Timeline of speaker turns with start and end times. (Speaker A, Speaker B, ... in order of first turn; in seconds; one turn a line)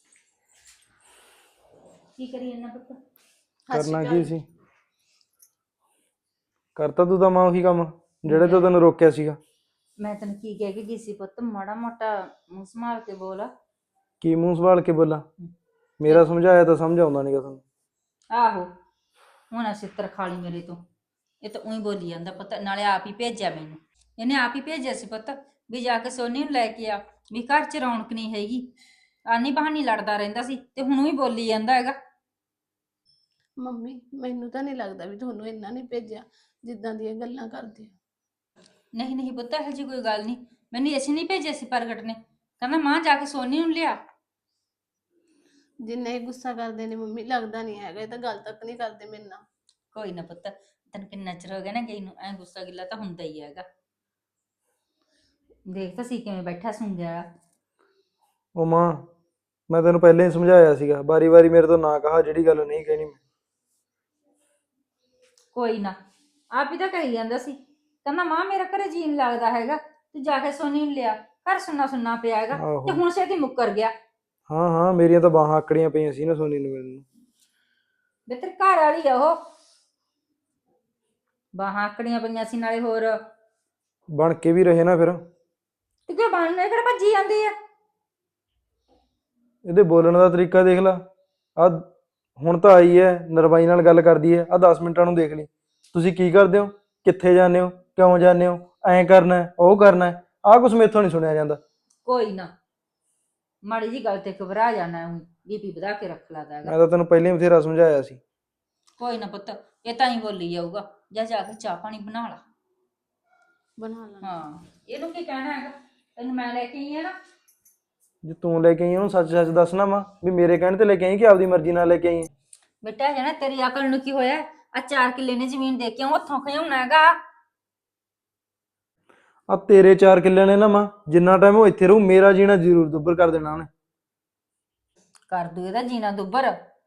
Speaker A: 2.2-3.0
Speaker B: 3.7-4.3
Speaker C: 3.7-4.4
Speaker C: 6.8-9.4
Speaker A: 8.3-8.7
Speaker A: 10.0-13.5
Speaker C: 14.2-15.3
Speaker C: 16.0-17.6
Speaker A: 18.3-18.7
Speaker A: 19.5-20.8
Speaker A: 21.4-28.7
Speaker A: 29.3-32.0
Speaker B: 33.6-38.0
Speaker A: 39.0-44.0
Speaker B: 45.8-49.4
Speaker A: 49.9-53.7
Speaker A: 55.7-57.3
Speaker C: 58.5-59.1
Speaker C: 59.7-63.2
Speaker A: 65.5-66.0
Speaker A: 66.5-73.9
Speaker C: 72.5-73.0
Speaker C: 74.5-77.0
Speaker A: 78.3-79.4
Speaker A: 81.5-83.2
Speaker C: 84.1-85.2
Speaker A: 86.1-87.5
Speaker C: 89.6-91.0
Speaker C: 91.6-101.6
Speaker A: 102.0-102.5
Speaker A: 103.6-106.7
Speaker C: 106.7-108.2
Speaker A: 109.0-112.4
Speaker B: 113.8-114.3
Speaker A: 114.2-117.1
Speaker C: 118.2-122.3
Speaker A: 122.8-127.2
Speaker C: 129.5-133.7
Speaker A: 135.3-136.6